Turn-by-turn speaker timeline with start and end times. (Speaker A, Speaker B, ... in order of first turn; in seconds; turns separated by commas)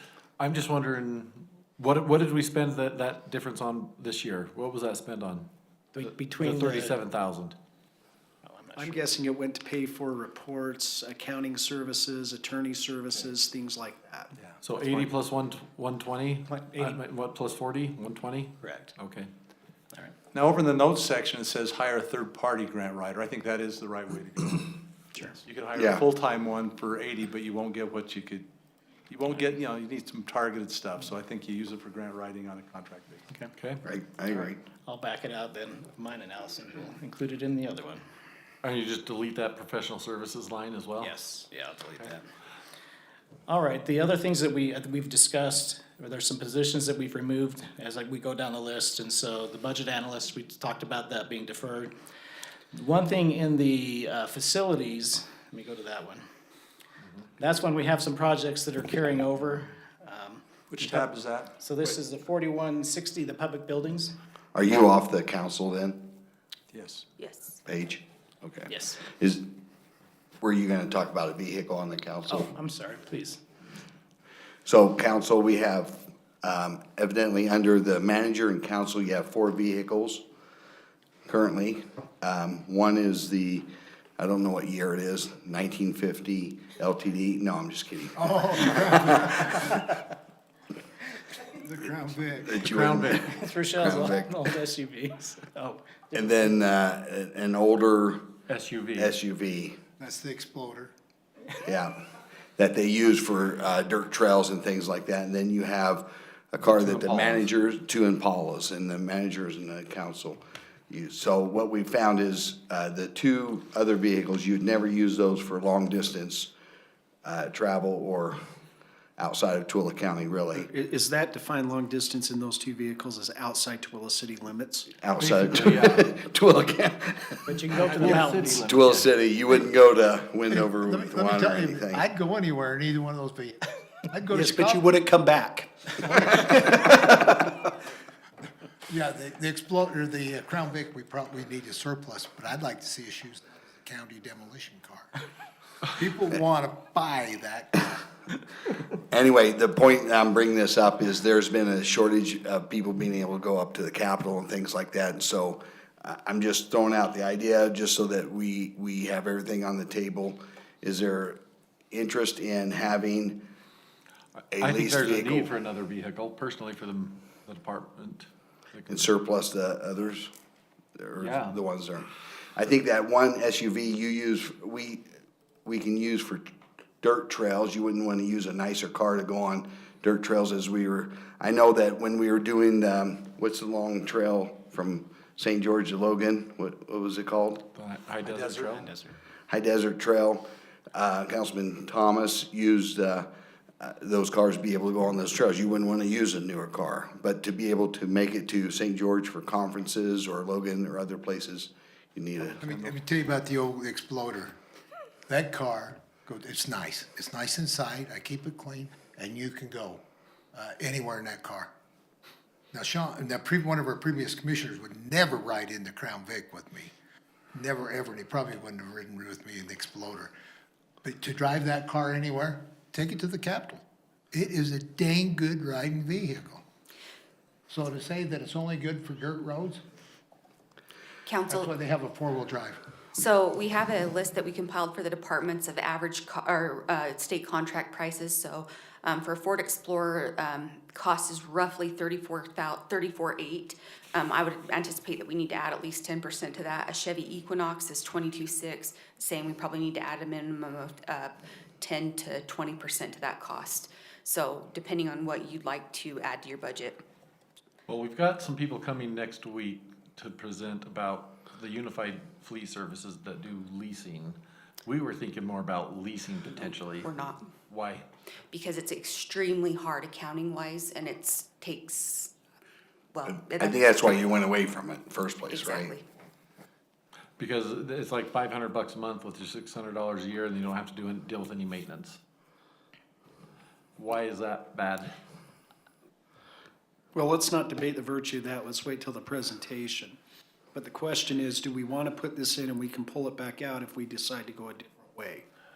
Speaker A: 0.4-5.5, Speaker B: 5.9-6.9, Speaker A: 6.0-7.5, Speaker B: 8.4-9.0, Speaker C: 8.7-14.4, Speaker A: 14.6-19.3, Speaker B: 16.5-17.0, Speaker B: 18.6-18.9, Speaker D: 20.3-28.4, Speaker E: 25.7-26.1, Speaker D: 29.1-33.2, Speaker A: 33.5-33.8, Speaker E: 33.8-34.6, Speaker B: 34.3-38.0, Speaker A: 38.6-41.1, Speaker B: 41.0-42.2, Speaker B: 43.5-51.9, Speaker B: 52.7-56.2, Speaker B: 57.4-64.1, Speaker D: 60.7-62.0, Speaker E: 64.5-66.1, Speaker D: 66.7-67.0, Speaker F: 67.2-67.6, Speaker E: 67.7-69.5, Speaker B: 68.7-69.0, Speaker E: 70.4-72.5, Speaker B: 72.3-73.4, Speaker E: 74.7-80.2, Speaker E: 81.3-89.4, Speaker G: 88.1-89.9, Speaker G: 91.5-92.6, Speaker E: 92.5-94.4, Speaker A: 92.6-93.3, Speaker B: 93.2-96.3, Speaker E: 96.1-98.4, Speaker A: 98.5-99.1, Speaker E: 98.9-99.8, Speaker G: 100.0-100.9, Speaker E: 101.6-102.0, Speaker E: 102.6-116.5, Speaker A: 106.6-107.5, Speaker E: 117.2-118.4, Speaker E: 119.2-120.7, Speaker C: 120.5-125.0, Speaker E: 125.0-127.6, Speaker A: 125.2-126.1, Speaker B: 127.5-128.7, Speaker A: 127.7-129.1, Speaker E: 128.6-132.0, Speaker G: 130.6-134.8, Speaker C: 134.3-137.6, Speaker G: 135.9-137.1, Speaker G: 138.9-145.1, Speaker G: 145.9-148.0, Speaker E: 149.1-161.4, Speaker E: 161.9-163.5, Speaker A: 164.4-169.1, Speaker E: 164.5-165.6, Speaker E: 168.9-170.3, Speaker E: 170.9-175.1, Speaker A: 171.2-171.6, Speaker E: 175.6-176.5, Speaker E: 177.0-187.7, Speaker A: 187.7-188.9, Speaker D: 188.2-188.8, Speaker B: 188.8-189.1, Speaker E: 189.5-193.3, Speaker E: 193.8-202.6, Speaker D: 202.4-203.0, Speaker G: 202.6-204.6, Speaker G: 205.3-210.0, Speaker G: 210.5-211.7, Speaker G: 212.7-216.9, Speaker G: 217.5-220.3, Speaker G: 221.0-226.6, Speaker G: 227.7-229.8, Speaker F: 231.2-231.7, Speaker G: 231.5-232.8, Speaker F: 233.1-257.0, Speaker A: 257.9-267.1, Speaker F: 266.9-267.5, Speaker A: 267.7-268.0, Speaker F: 268.5-272.3, Speaker F: 273.1-273.9, Speaker E: 273.3-275.9, Speaker F: 275.5-276.0, Speaker A: 277.4-282.2, Speaker A: 284.0-285.1, Speaker C: 287.1-290.2, Speaker C: 290.7-295.4